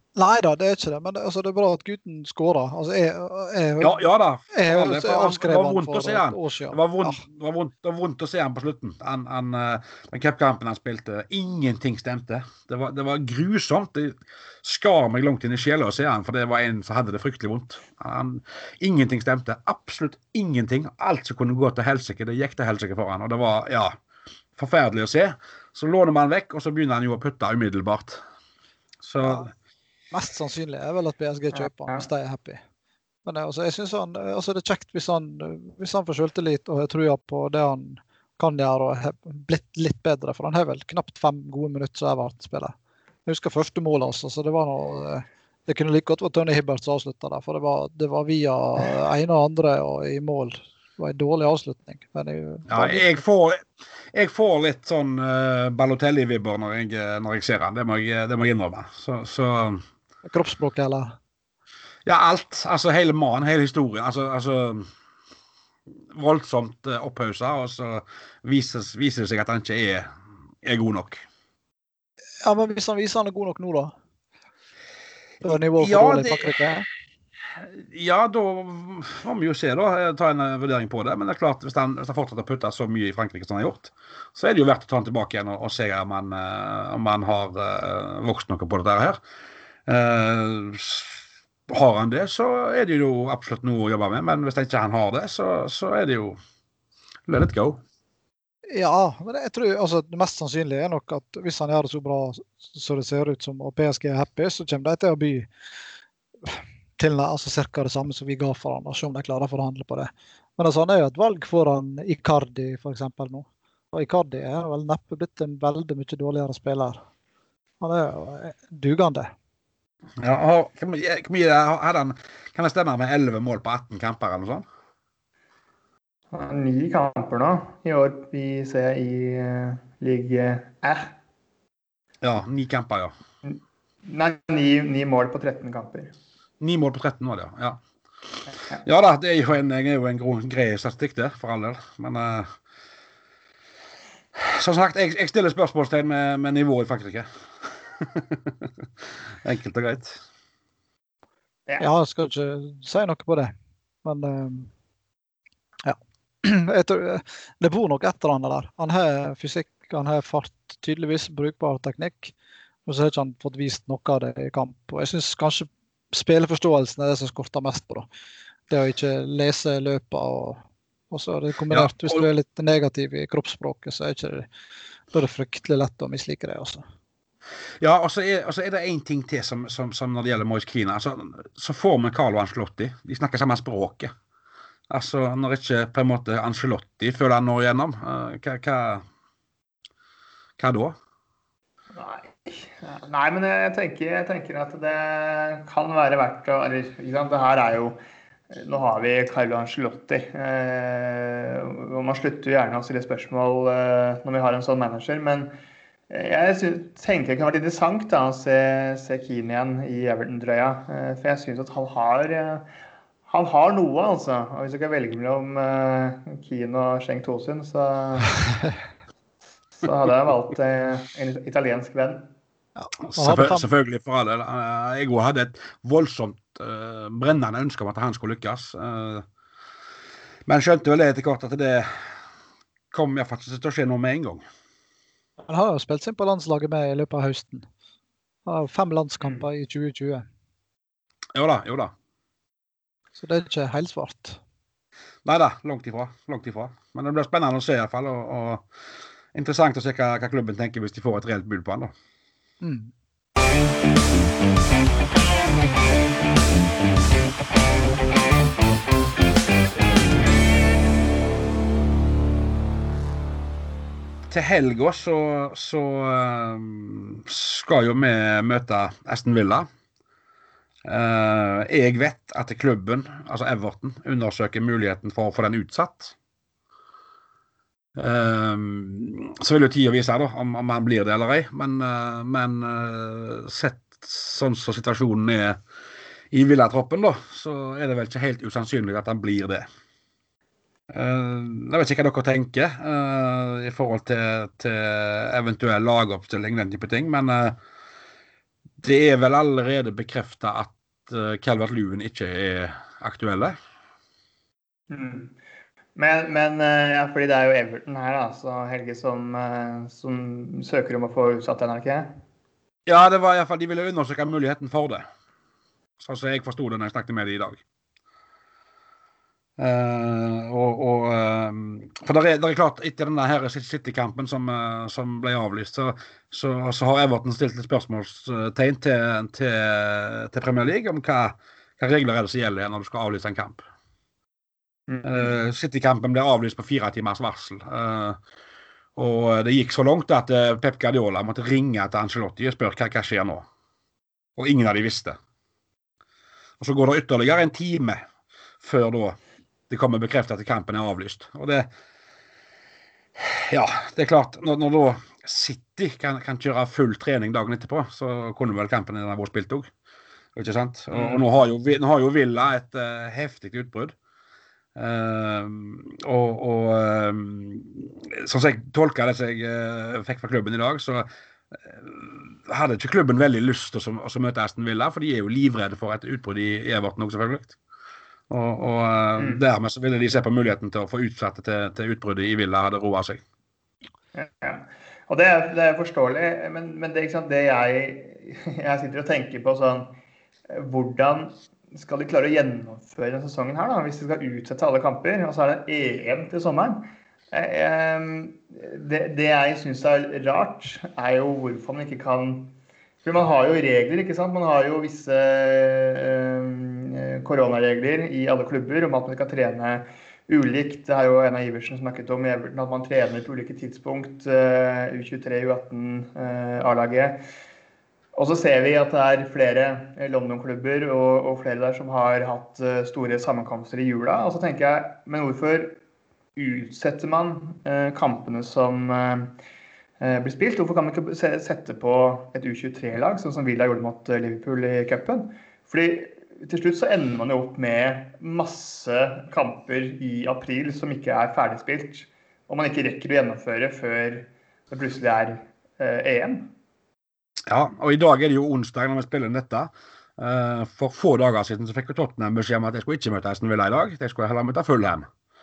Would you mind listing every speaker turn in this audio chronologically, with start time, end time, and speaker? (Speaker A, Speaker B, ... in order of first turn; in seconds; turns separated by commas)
Speaker A: 0.2-4.0, Speaker B: 3.8-23.9, Speaker A: 4.5-7.2, Speaker B: 24.6-28.2, Speaker B: 29.0-29.5, Speaker A: 30.1-32.6, Speaker C: 31.6-32.0, Speaker A: 33.3-42.7, Speaker A: 43.3-53.0, Speaker B: 52.7-59.8, Speaker A: 60.3-61.2, Speaker B: 62.0-64.9, Speaker B: 66.1-70.1, Speaker B: 70.6-71.2, Speaker A: 72.4-73.9, Speaker A: 75.4-76.9, Speaker B: 75.8-76.5, Speaker B: 77.6-89.2, Speaker B: 89.9-96.4, Speaker B: 97.3-97.8, Speaker A: 98.7-105.5, Speaker A: 106.5-117.0, Speaker A: 117.8-119.3, Speaker B: 120.2-124.7, Speaker C: 126.3-131.1, Speaker B: 132.2-133.1, Speaker C: 133.4-136.1, Speaker B: 136.6-137.8, Speaker B: 138.8-142.5, Speaker B: 144.4-150.2, Speaker A: 151.8-153.5, Speaker A: 154.1-154.7, Speaker A: 155.8-162.3, Speaker A: 162.9-168.1, Speaker A: 168.7-174.5, Speaker B: 171.7-172.2, Speaker A: 175.1-176.8, Speaker B: 177.8-184.1, Speaker B: 184.9-189.0, Speaker B: 190.6-191.0, Speaker C: 191.9-198.0, Speaker C: 198.5-205.5, Speaker C: 206.1-212.7, Speaker C: 213.3-218.4, Speaker C: 219.8-222.3, Speaker A: 222.8-223.7, Speaker B: 223.1-229.2, Speaker B: 230.5-232.1, Speaker B: 232.9-234.4, Speaker A: 235.4-237.7, Speaker A: 238.5-240.3, Speaker B: 241.3-241.9, Speaker A: 243.2-244.4, Speaker B: 245.2-248.7, Speaker B: 249.3-251.9, Speaker A: 252.6-252.9, Speaker B: 264.3-269.7, Speaker B: 270.9-276.1, Speaker B: 278.0-285.6, Speaker B: 286.3-289.6, Speaker B: 290.9-297.6, Speaker B: 298.8-303.6, Speaker C: 304.9-305.3, Speaker C: 306.0-312.1, Speaker B: 312.9-315.1, Speaker B: 316.0-317.6, Speaker B: 319.6-333.6, Speaker C: 334.9-335.3, Speaker B: 335.0-338.2, Speaker B: 339.0-343.5, Speaker B: 344.4-345.2, Speaker B: 346.6-348.0, Speaker B: 348.6-349.2, Speaker B: 349.7-351.7, Speaker B: 353.2-359.7, Speaker B: 360.4-363.9, Speaker C: 360.9-361.2, Speaker B: 364.8-377.6, Speaker B: 378.3-383.2, Speaker C: 379.2-379.4, Speaker C: 384.1-389.9, Speaker C: 390.5-417.2, Speaker C: 418.1-425.8, Speaker C: 426.4-429.3, Speaker C: 430.0-446.5, Speaker B: 447.5-455.1